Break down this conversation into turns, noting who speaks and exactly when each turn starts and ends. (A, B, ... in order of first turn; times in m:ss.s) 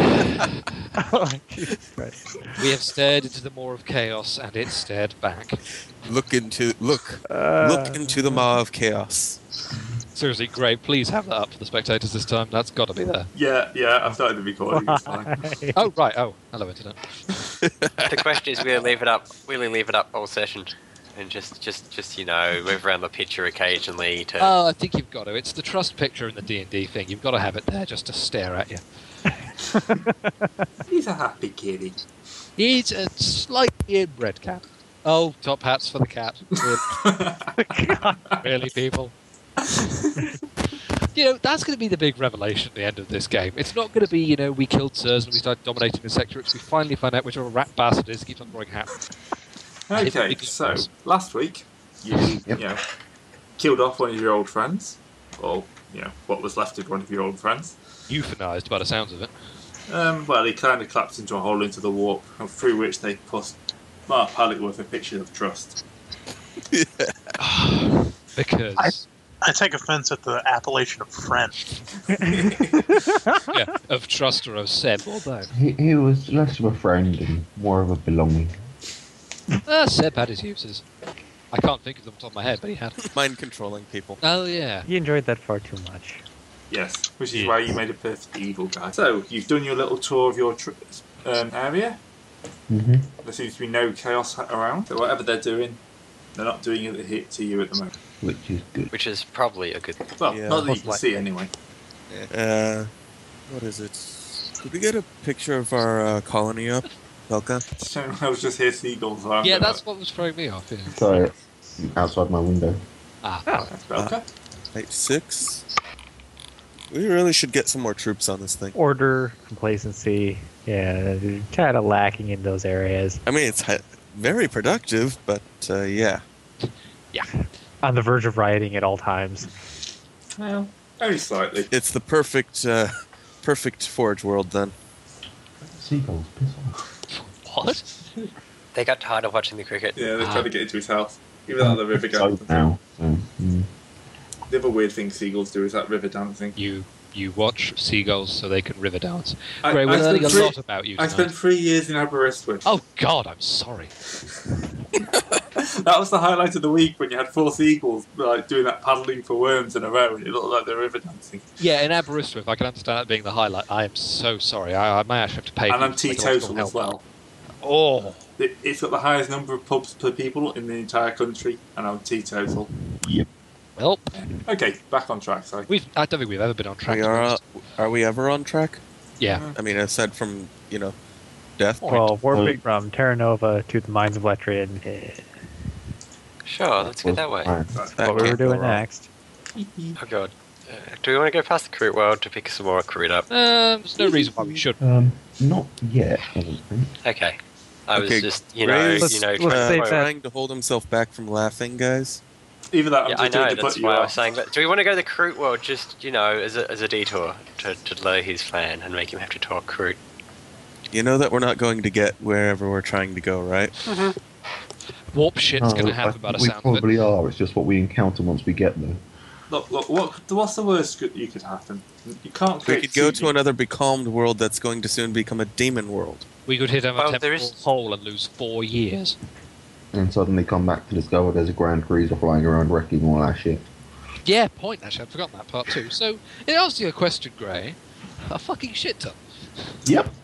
0:01.0-0:02.6 A
0:02.6-0:05.6 B
0:06.0-0:09.4 C
0:07.3-0:08.4 A
0:10.2-0:13.3 B
0:13.3-0:15.4 D
0:14.7-0:15.8 A
0:15.8-0:17.0 B
0:17.6-0:18.1 C
0:18.1-0:24.5 E
0:24.4-0:28.8 B
0:29.7-0:30.7 A
0:30.9-0:32.0 D
0:32.6-0:37.1 B
0:36.9-0:37.5 D
0:37.6-0:38.2 A
0:38.4-0:39.1 B
0:39.8-0:40.4 D
0:41.1-0:49.1 B
0:49.9-0:52.8 D
0:49.9-0:50.9 B
0:53.6-0:57.8 D
0:58.1-0:59.3 B
0:59.9-1:05.8 D
1:06.7-1:07.4 C
1:07.4-1:09.0 B
1:09.4-1:11.7 F
1:12.1-1:12.8 D
1:12.9-1:13.4 A
1:13.5-1:15.5 B
1:15.5-1:18.6 G
1:19.6-1:20.8 B
1:21.5-1:23.1 B
1:23.0-1:24.2 C
1:24.2-1:24.9 B
1:24.9-1:26.2 A
1:26.7-1:32.0 D
1:32.7-1:33.1 G
1:33.2-1:35.8 D
1:36.4-1:37.9 D
1:38.2-1:38.9 G
1:38.9-1:40.1 E
1:40.2-1:41.5 D
1:40.3-1:40.7 C
1:40.7-1:41.0 A
1:42.1-1:42.9 C
1:43.5-1:47.6 C
1:47.8-1:49.8 D
1:49.4-1:51.1 B
1:50.9-1:52.8 G
1:53.2-1:53.5 B
1:53.7-1:54.3 D
1:54.7-1:55.6 C
1:56.9-1:58.8 C
1:58.8-2:03.2 A
2:03.2-2:06.2 C
2:07.8-2:09.5 A
2:10.4-2:11.7 D
2:11.7-2:14.7 C
2:15.6-2:16.8 G
2:17.1-2:17.9 B
2:18.7-2:20.1 E
2:20.0-2:22.6 D
2:20.2-2:20.5 B
2:21.6-2:23.7 G
2:24.5-2:26.6 D
2:26.6-2:31.3 B
2:29.6-2:32.7 D
2:32.6-2:33.9 B
2:35.6-2:41.4 D
2:41.6-2:47.0 B
2:45.7-2:47.0 D
2:47.6-2:48.2 B
2:48.4-2:52.7 D
2:53.0-2:53.3 G
2:53.8-2:54.1 B
2:54.1-2:55.7 D
2:55.7-2:57.4 B
2:56.9-2:58.8 C
2:59.2-2:59.5 B
2:59.3-2:59.6 D
2:59.6-3:01.0 C
3:01.6-3:02.0 C
3:01.8-3:05.2 A
3:02.3-3:02.6 G
3:06.5-3:07.6 E
3:06.8-3:07.8 G
3:07.7-3:08.4 D
3:07.9-3:09.1 A
3:08.0-3:08.8 C
3:09.6-3:10.0 D
3:10.0-3:13.3 E
3:13.3-3:14.8 B
3:14.3-3:14.6 C
3:14.8-3:16.9 G
3:17.0-3:20.0 E
3:17.9-3:22.2 C
3:19.0-3:20.1 A
3:22.7-3:24.2 D
3:23.1-3:30.0 E
3:30.9-3:33.7 C
3:33.8-3:34.2 E
3:35.1-3:36.9 B
3:35.6-3:39.0 G
3:39.5-3:43.4 D
3:42.6-3:46.3 C
3:46.5-3:49.2 B
3:47.0-3:47.6 E
3:49.9-3:53.7 G
3:54.2-3:59.2 B
3:59.8-4:00.1 G